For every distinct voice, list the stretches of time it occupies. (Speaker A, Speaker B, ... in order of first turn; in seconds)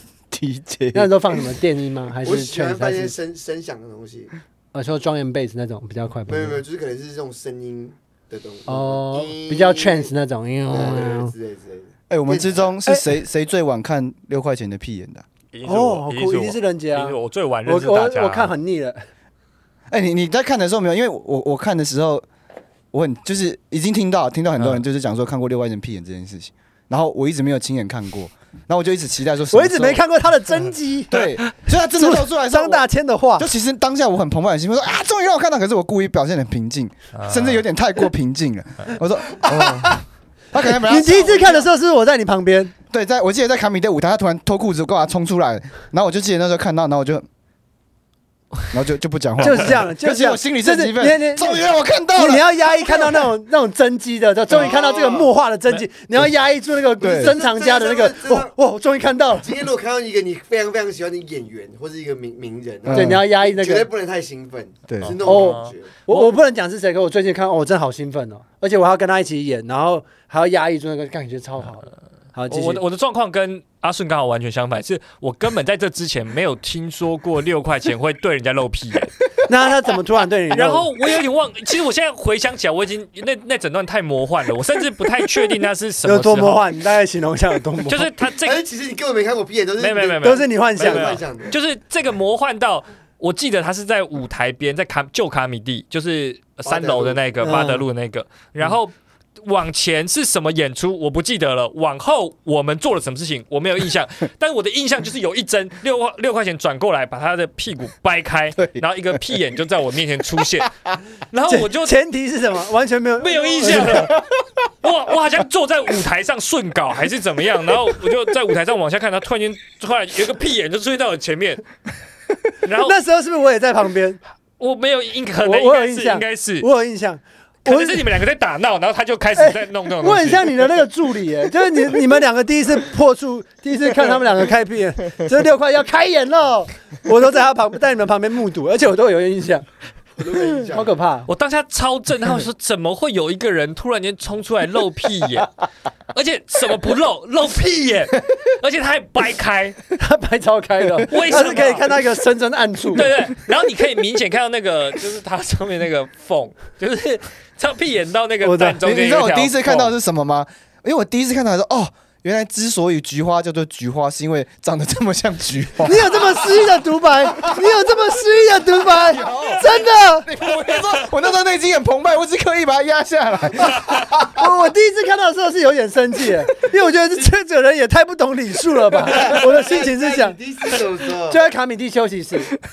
Speaker A: 0.3-1.4, 12.1-15.2, 19.9-22.2, 22.9-30.0, 31.1-32.9, 33.4-41.7, 42.9-47.2, 48.7-53.0, 57.0-57.3, 62.8-63.2, 64.9-65.2, 108.6-108.8, 113.9-114.2, 158.8-166.3, 168.9-173.9
Speaker B: 0.9-3.1, 4.7-6.6, 8.7-11.3, 15.6-19.0, 29.5-31.2, 31.9-33.5, 40.8-42.7, 49.4-59.5, 62.9-63.9, 65.2-72.8, 79.5-80.9, 86.0-88.1, 90.2-91.1, 97.4-97.8, 111.5-114.1, 122.8-124.2, 125.4-128.1, 129.3-139.7, 140.4-141.3, 150.0-153.1, 158.4-158.8, 165.8-170.3, 174.3-180.4, 181.3-182.5
Speaker C: 2.2-4.3, 6.3-10.1, 10.7-12.8, 39.4-39.9, 54.5-55.3, 57.0-58.5, 59.4-65.9, 88.4-91.5, 96.7-97.2, 140.2-140.9, 179.0-181.4
Speaker D: 15.5-18.5, 37.1-37.6, 65.0-66.3, 72.5-79.1, 80.5-86.6, 87.8-88.6, 89.8-110.7, 111.3-111.9, 113.2-114.2, 114.8-121.6, 122.6-123.0, 124.6-126.7, 127.6-130.7, 141.3-145.5, 146.1-149.8, 151.1-152.0, 152.9-159.7